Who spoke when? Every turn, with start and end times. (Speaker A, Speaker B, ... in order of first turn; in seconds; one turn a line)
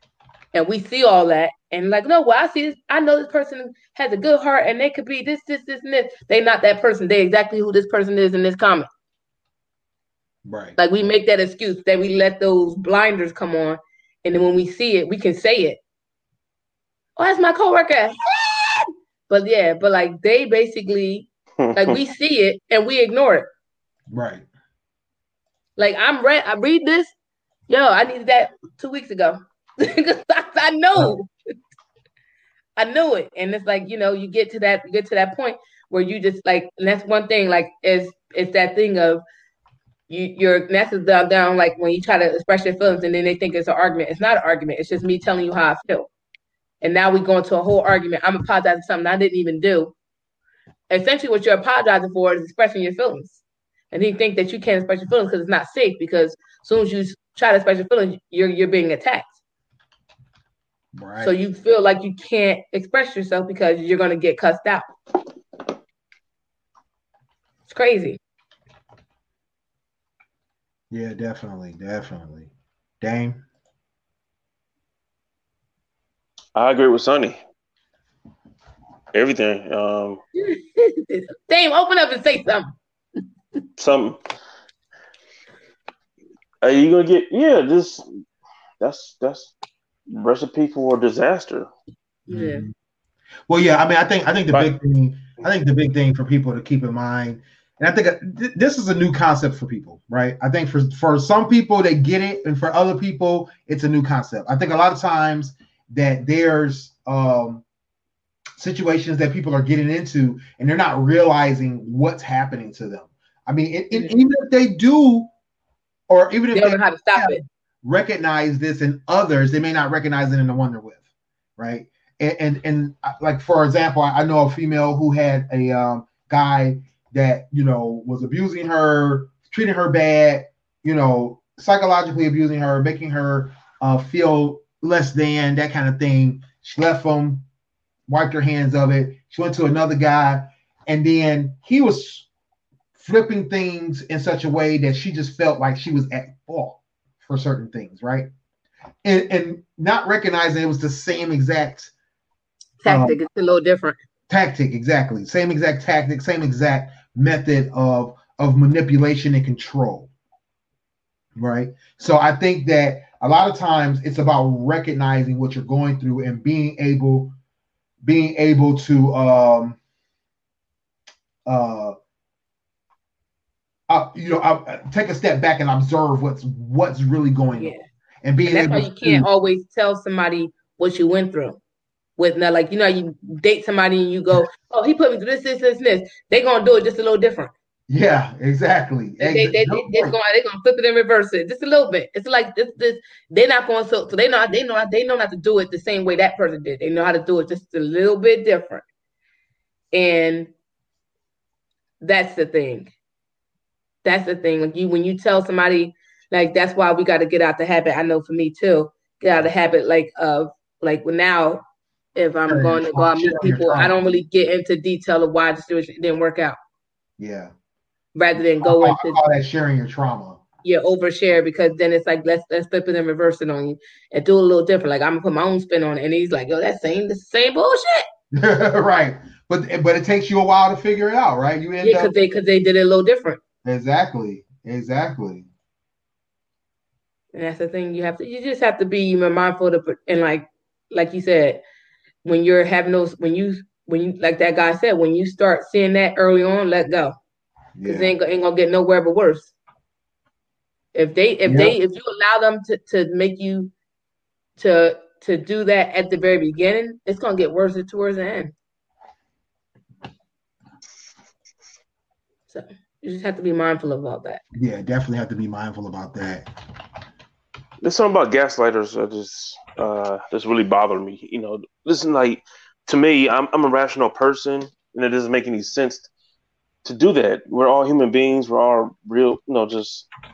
Speaker A: 0.5-8.9
Speaker B: 10.4-10.8
Speaker A: 10.8-15.8
Speaker A: 17.1-23.5
Speaker C: 21.6-21.9
Speaker B: 24.1-24.4
Speaker A: 25.8-27.1
Speaker A: 27.7-31.3
Speaker A: 32.8-39.2
Speaker A: 40.1-46.1
Speaker A: 46.8-49.9
Speaker A: 50.9-53.4
Speaker A: 53.9-59.3
Speaker B: 60.9-61.4
Speaker A: 61.2-64.9
Speaker A: 67.7-68.2
Speaker B: 70.9-73.4
Speaker C: 76.5-77.4
Speaker C: 79.1-80.2
Speaker A: 80.3-82.7
Speaker C: 83.8-84.2
Speaker C: 86.6-88.1
Speaker C: 88.8-89.5
Speaker C: 90.1-91.7
Speaker A: 92.3-92.6
Speaker B: 92.3-92.7
Speaker B: 93.5-107.6
Speaker B: 108.6-115.3
Speaker B: 116.1-121.0
Speaker A: 116.5-117.4
Speaker B: 121.6-137.4
Speaker B: 138.1-142.3
Speaker B: 142.9-148.3
Speaker B: 149.0-151.9
Speaker A: 152.8-154.0
Speaker B: 152.8-153.2
Speaker B: 154.3-160.1
Speaker B: 161.3-167.3
Speaker B: 168.0-169.8
Speaker B: 171.4-171.9
Speaker B: 173.9-179.3
Speaker A: 177.6-177.8
Speaker A: 178.4-181.6
Speaker A: 182.2-187.5
Speaker B: 187.9-190.2
Speaker A: 189.2-198.8
Speaker A: 199.9-200.5
Speaker A: 202.0-202.9
Speaker A: 204.0-211.6
Speaker A: 212.1-216.6
Speaker B: 212.5-214.0
Speaker B: 217.2-217.5
Speaker A: 218.1-219.2
Speaker B: 218.6-220.4
Speaker A: 220.6-228.1
Speaker B: 228.3-232.1
Speaker A: 231.8-233.4
Speaker B: 233.6-235.5
Speaker A: 237.3-241.6
Speaker A: 242.2-247.1
Speaker B: 247.7-248.1
Speaker A: 247.8-249.5
Speaker A: 250.9-253.7
Speaker B: 251.4-251.8
Speaker A: 254.6-258.5
Speaker A: 262.5-264.4
Speaker B: 264.5-266.5
Speaker C: 267.8-276.1
Speaker C: 276.8-280.1